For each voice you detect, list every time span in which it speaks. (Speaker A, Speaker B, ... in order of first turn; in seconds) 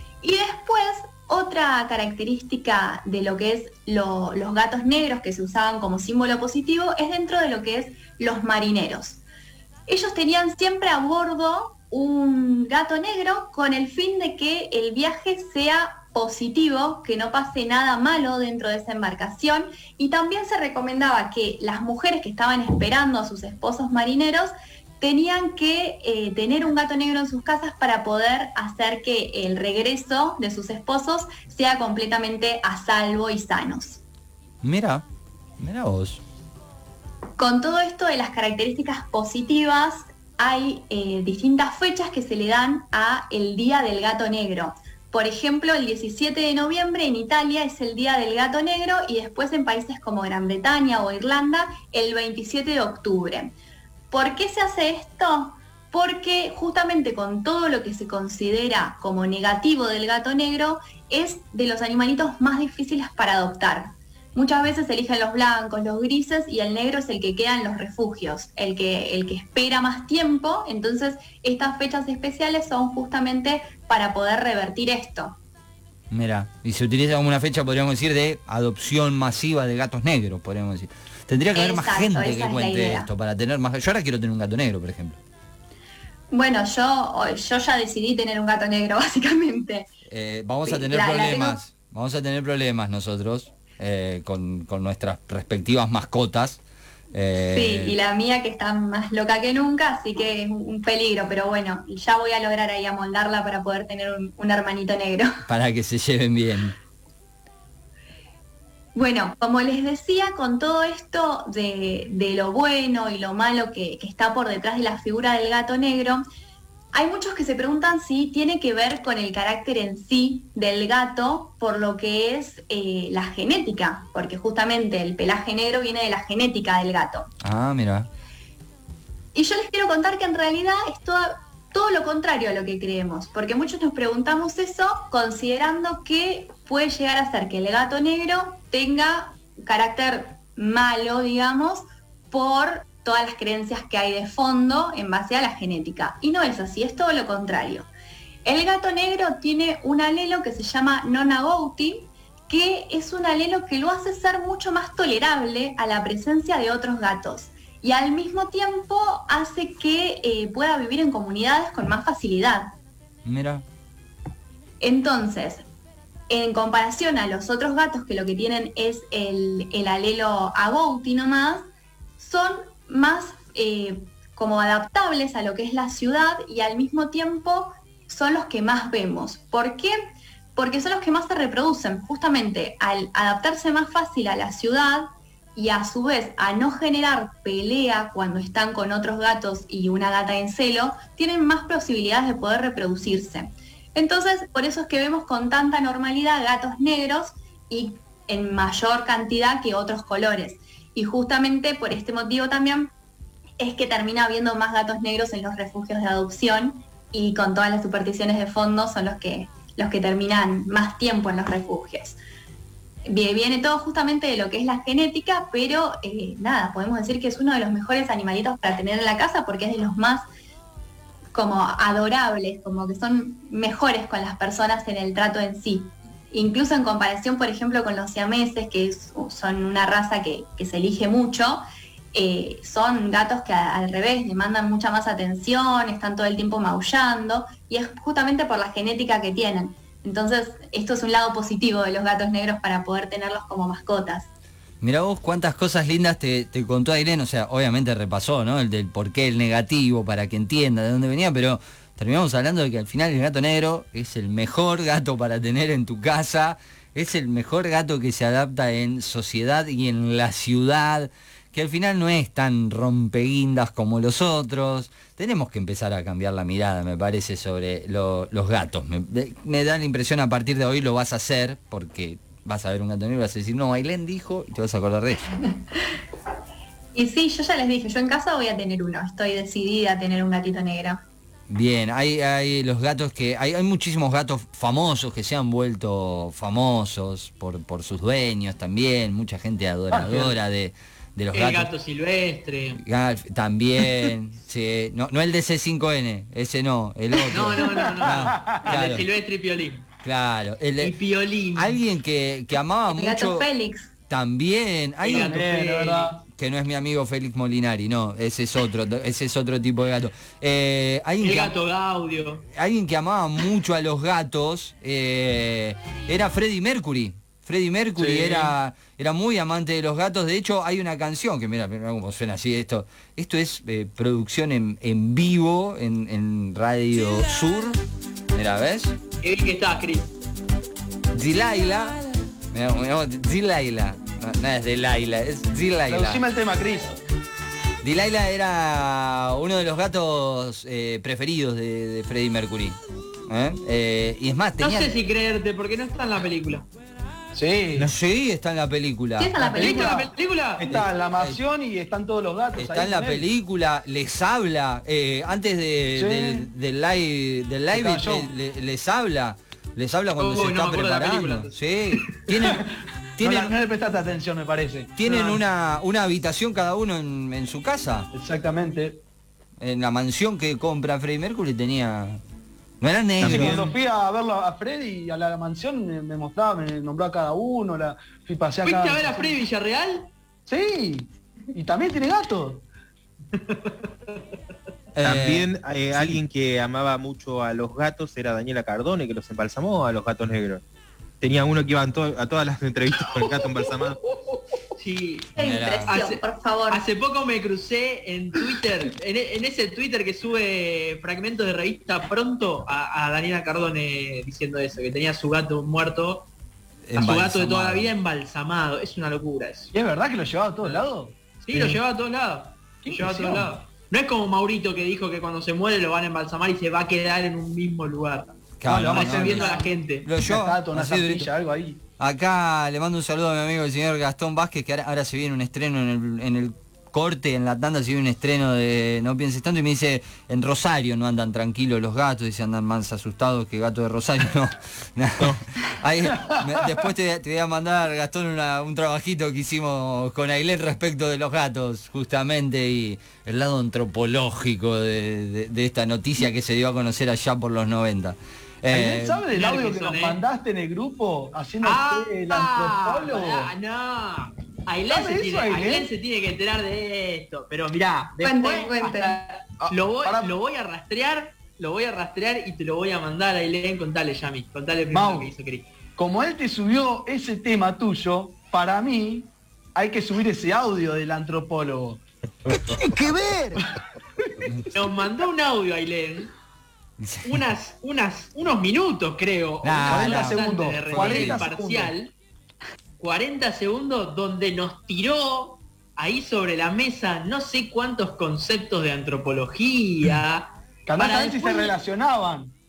Speaker A: 0.2-9.2, 9.9-34.0, 37.4-53.5, 54.1-75.4, 81.6-83.1, 86.3-89.9, 90.7-91.6, 97.5-105.3, 109.0-116.2, 116.9-127.3, 129.3-147.9, 148.4-162.7, 164.8-165.7, 166.3-171.7, 172.2-179.9, 180.6-202.9, 203.6-212.2, 213.1-220.2, 221.3-231.6, 232.1-244.3, 276.9-281.0, 302.9-303.9, 349.2-350.1, 395.4-396.8, 458.2-459.2
Speaker B: 34.6-35.0, 35.6-36.2, 76.1-85.2, 90.1-96.6, 97.1-98.0, 105.5-106.8, 127.4-128.1, 163.2-163.7, 244.8-275.3, 281.5-291.7, 292.8-299.1, 300.0-300.9, 301.6-303.5, 304.1-305.4, 306.3-311.6, 312.5-327.8, 328.3-329.0, 331.1-336.2, 337.8-344.9, 347.8-349.5, 350.7-351.4, 352.6-362.6, 363.2-363.5, 365.0-368.1, 369.6-372.2, 372.8-373.6, 384.9-386.2, 395.4-395.9, 406.9-407.9, 418.6-421.3, 422.0-449.2, 477.0-477.4, 479.6-481.4
Speaker C: 289.9-290.4, 297.6-298.8, 305.1-306.2, 318.0-318.6, 335.9-336.9, 347.3-347.9, 349.5-353.3, 355.9-356.5, 357.7-358.3, 362.5-365.4, 368.1-369.0, 373.2-379.4, 380.5-382.6, 409.7-411.8, 412.9-413.6, 418.6-421.8, 436.2-436.6, 448.7-453.5, 454.9-455.9, 459.6-460.3, 464.9-465.3, 466.0-472.0, 472.5-473.7, 479.9-481.9, 490.9-492.6
Speaker D: 291.3-292.8, 297.3-299.9, 300.8-301.8, 305.0-306.1, 311.2-312.5, 329.2-330.1, 344.6-346.7, 349.5-350.7, 360.2-362.1, 378.6-380.1, 383.3-384.2, 394.8-395.3, 395.9-406.3, 407.0-409.7, 411.4-420.1, 449.3-450.2, 451.6-465.7, 474.7-476.3, 477.2-482.1, 483.0-491.8
Speaker E: 373.2-373.8, 385.0-390.6, 391.2-394.0